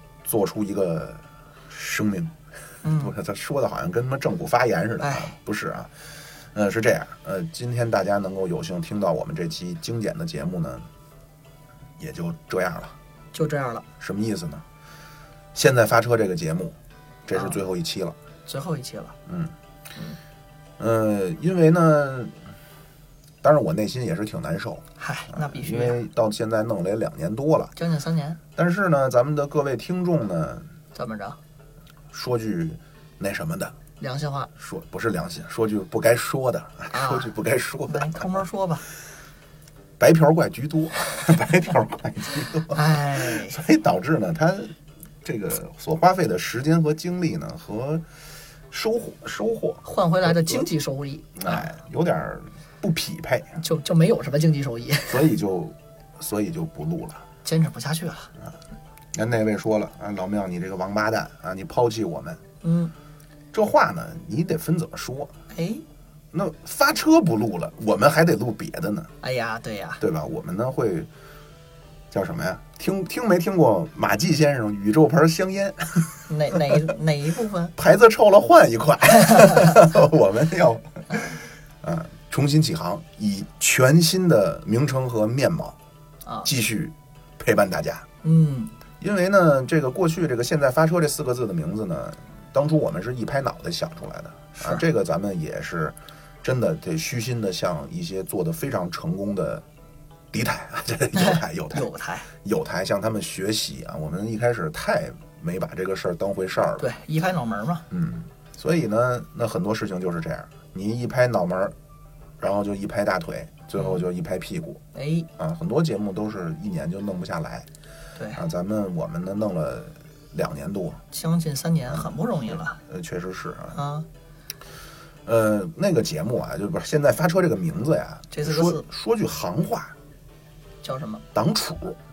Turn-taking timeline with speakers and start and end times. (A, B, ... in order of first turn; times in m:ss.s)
0:00.2-0:10.8 A
0:02.8-0:03.1 B
0:05.0-0:05.3 B
0:12.0-0:12.9 A
0:13.3-0:13.8 B
0:14.0-0:14.6 A
0:15.5-0:18.2 A
0:17.3-0:17.6 B
0:18.4-0:19.1 B
0:19.2-0:19.5 A
0:20.8-0:22.4 A
0:23.4-0:27.7 A
0:25.0-0:26.0 B
0:27.7-0:28.4 B
0:28.6-0:30.7 A
0:30.9-0:31.4 B
0:32.1-0:33.7 A
0:34.0-0:34.5 B
0:34.6-0:38.4 A
0:36.9-0:37.3 B
0:37.9-0:38.8 B
0:40.0-0:48.0 A
0:42.7-0:43.6 B
0:48.7-0:50.6 A
0:49.8-0:51.7 B
0:51.3-0:53.6 A
0:53.6-0:55.2 B
0:55.1-0:57.2 A
0:57.4-0:58.3 B
0:59.1-1:02.4 A
1:02.6-1:02.9 B
1:03.5-1:05.3 A
1:05.5-1:05.8 B
1:06.3-1:09.1 A
1:09.2-1:10.0 B
1:10.0-1:11.1 A
1:12.1-1:16.3 A
1:16.3-1:17.7 B
1:17.8-1:25.8 A
1:26.2-1:26.5 B
1:26.4-1:28.0 A
1:28.2-1:28.7 B
1:29.0-1:39.6 A
1:34.6-1:34.8 B
1:40.3-1:41.9 A
1:41.1-1:42.3 B
1:42.4-1:46.9 A
1:46.8-1:47.8 B
1:47.9-1:51.7 A
1:52.4-1:54.8 A
1:54.9-1:55.3 B
1:55.4-1:57.7 A
1:58.1-1:58.4 B
1:58.3-2:01.0 A
2:01.1-2:02.8 B
2:01.9-2:03.8 A
2:03.7-2:04.1 B
2:05.2-2:09.9 A
2:08.3-2:08.8 B
2:10.8-2:11.2 B
2:11.3-2:12.0 A